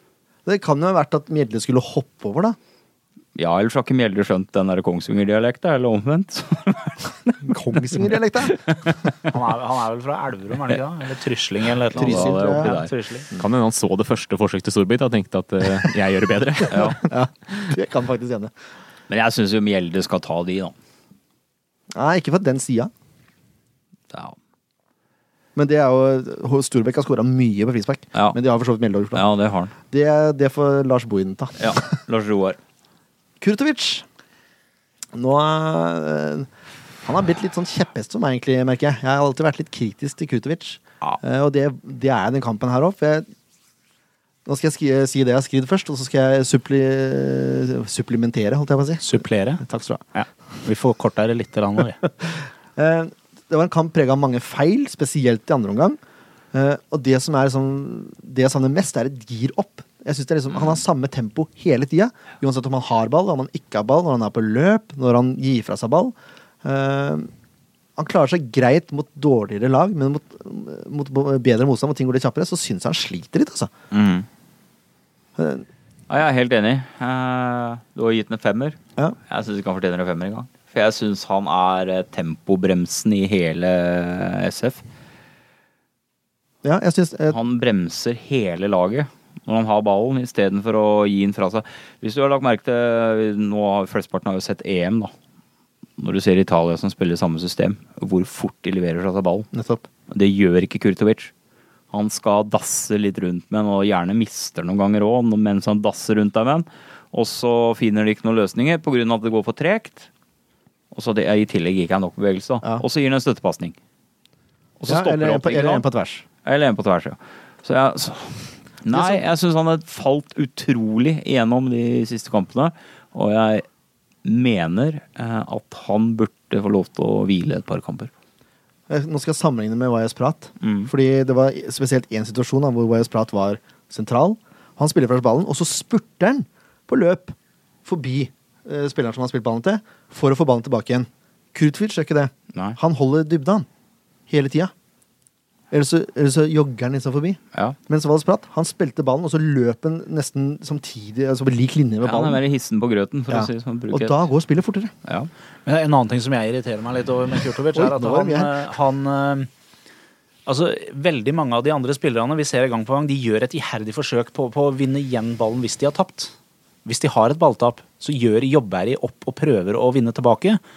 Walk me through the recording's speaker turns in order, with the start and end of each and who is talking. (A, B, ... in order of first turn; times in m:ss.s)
0:00.4-0:02.6 A
0:03.4-0:07.5 B
0:07.4-0:08.6 A
0:08.5-0:09.0 B
0:09.3-0:13.3 C
0:12.0-0:12.8 A
0:12.0-0:12.9 B
0:13.4-0:17.0 D
0:16.7-0:17.0 B
0:17.0-0:18.5 A
0:19.1-0:20.7 B
0:22.0-0:22.9 A
0:25.6-0:29.2 A
0:29.1-0:29.7 B
0:29.9-0:31.8 A
0:31.6-0:32.6 B
0:33.4-0:34.0 A
0:35.1-0:36.5 A
0:37.0-0:43.3 A
0:44.5-0:50.0 A
0:49.0-0:49.6 C
0:50.1-0:52.0 C
0:52.1-0:56.0 A
0:56.5-1:07.3 A
1:08.0-1:13.7 A
1:13.9-1:14.3 B
1:15.4-1:15.6 A
1:16.1-1:24.8 B
1:26.6-1:27.4 A
1:27.3-1:35.1 B
1:36.0-1:39.5 B
1:39.5-1:39.8 A
1:40.1-1:41.3 B
1:41.9-1:50.1 B
1:50.9-1:53.8 B
1:54.8-1:55.8 B
1:54.9-1:56.2 A
1:56.4-2:03.6 B
1:58.9-1:59.2 A
2:04.2-2:08.1 B
2:08.9-2:23.7 A
2:10.6-2:10.9 B
2:24.3-2:24.7 A
2:25.7-2:32.4 A
2:32.0-2:34.3 B
2:33.3-2:34.9 A
2:35.0-2:35.3 B
2:35.7-2:39.5 C
2:37.7-2:38.6 A
2:40.5-2:46.3 C
2:46.8-2:50.6 C